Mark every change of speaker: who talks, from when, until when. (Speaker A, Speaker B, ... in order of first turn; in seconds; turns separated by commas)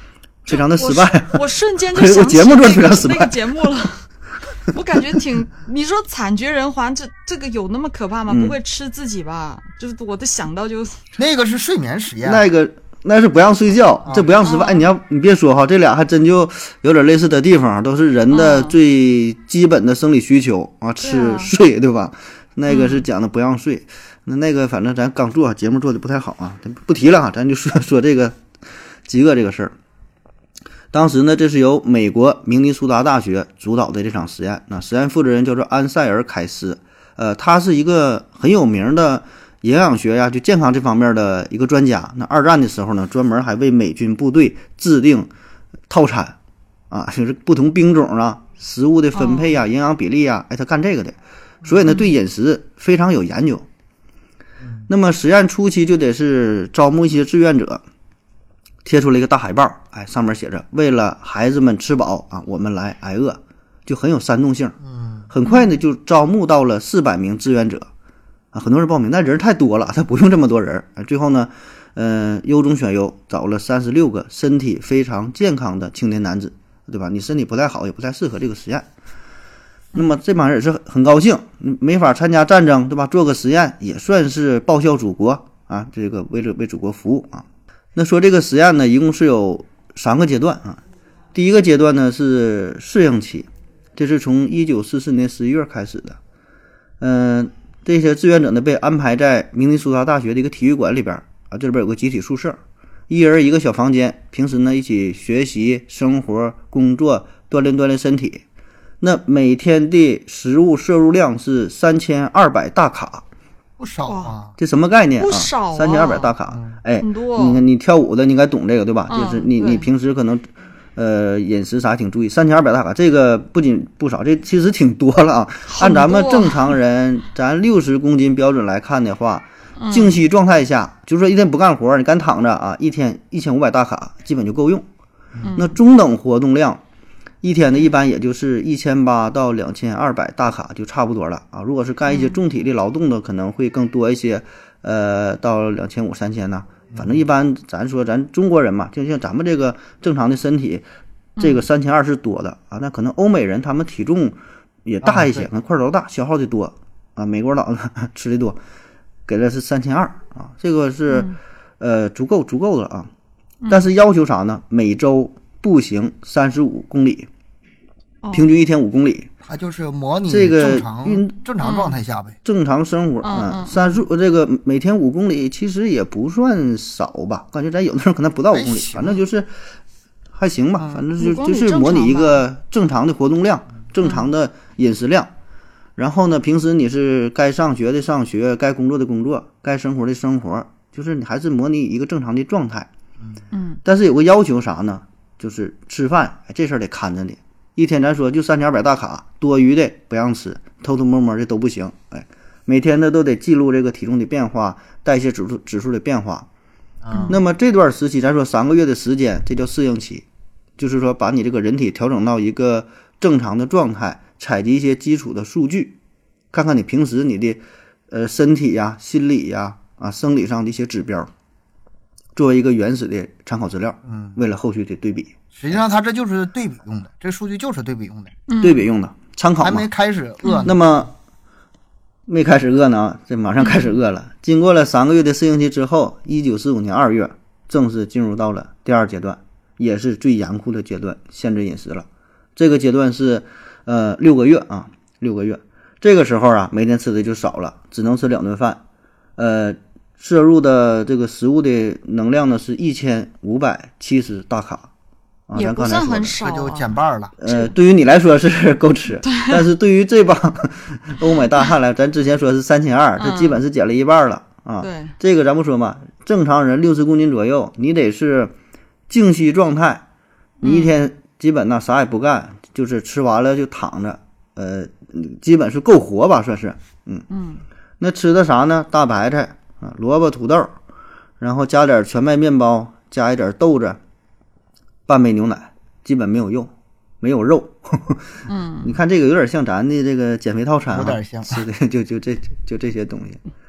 Speaker A: 0.5-1.4, Speaker B: 0.5-11.0, Speaker A: 1.9-3.4, Speaker A: 8.3-8.6, Speaker C: 11.2-12.4, Speaker A: 12.2-28.4, Speaker B: 14.4-14.9, Speaker B: 18.3-18.8, Speaker B: 21.0-21.5, Speaker B: 22.7-23.1, Speaker A: 29.1-29.8, Speaker A: 30.9-45.3, Speaker A: 45.9-46.4, Speaker A: 46.9-53.7, Speaker B: 49.1-49.6, Speaker C: 54.6-54.9, Speaker A: 54.9-57.8, Speaker A: 58.9-64.8, Speaker C: 64.8-65.3, Speaker A: 65.3-67.9, Speaker B: 65.5-65.8, Speaker A: 68.5-78.9, Speaker A: 80.0-90.8, Speaker A: 91.3-96.2, Speaker A: 97.0-108.4, Speaker A: 109.0-113.2, Speaker C: 113.8-114.5, Speaker B: 114.1-114.4, Speaker A: 114.6-134.9, Speaker B: 115.2-116.3, Speaker C: 116.5-116.8, Speaker B: 117.0-117.6, Speaker B: 119.1-119.9, Speaker B: 125.7-126.8, Speaker B: 129.8-130.2, Speaker B: 135.4-135.8, Speaker A: 135.5-136.8, Speaker A: 137.4-150.8, Speaker B: 142.1-142.4, Speaker C: 146.9-147.2, Speaker A: 151.4-158.6, Speaker B: 151.4-151.6, Speaker C: 155.0-155.5, Speaker A: 159.3-163.1, Speaker B: 161.1-161.4, Speaker A: 163.7-167.3, Speaker B: 168.2-168.5, Speaker A: 168.3-169.3, Speaker C: 169.4-172.4, Speaker A: 170.3-171.3, Speaker B: 171.6-172.0, Speaker A: 172.4-179.5, Speaker B: 173.2-173.9, Speaker C: 178.5-179.2, Speaker A: 180.3-185.3, Speaker C: 180.8-181.1, Speaker B: 181.2-182.4, Speaker B: 184.0-184.3, Speaker A: 186.0-192.9, Speaker B: 193.5-193.8, Speaker A: 193.8-206.5, Speaker C: 207.0-207.4, Speaker B: 207.1-207.4, Speaker A: 207.3-210.2, Speaker A: 210.8-215.9, Speaker A: 216.5-221.3, Speaker A: 222.4-225.4, Speaker C: 224.1-224.4, Speaker C: 225.5-228.4, Speaker B: 228.5-228.8, Speaker A: 228.6-229.9, Speaker C: 229.6-230.8, Speaker B: 230.4-230.7, Speaker A: 230.6-231.2, Speaker A: 232.3-248.8, Speaker A: 249.4-254.9, Speaker A: 255.5-256.4, Speaker B: 255.6-257.7, Speaker C: 256.4-257.4, Speaker A: 257.4-268.5, Speaker B: 259.3-259.6, Speaker B: 263.2-263.6, Speaker B: 264.8-265.1, Speaker A: 269.1-270.0, Speaker B: 270.6-270.9, Speaker A: 270.6-277.2, Speaker B: 277.3-277.6, Speaker A: 278.0-280.8, Speaker A: 281.4-284.0, Speaker A: 285.1-293.4, Speaker B: 288.5-288.9, Speaker C: 290.9-291.6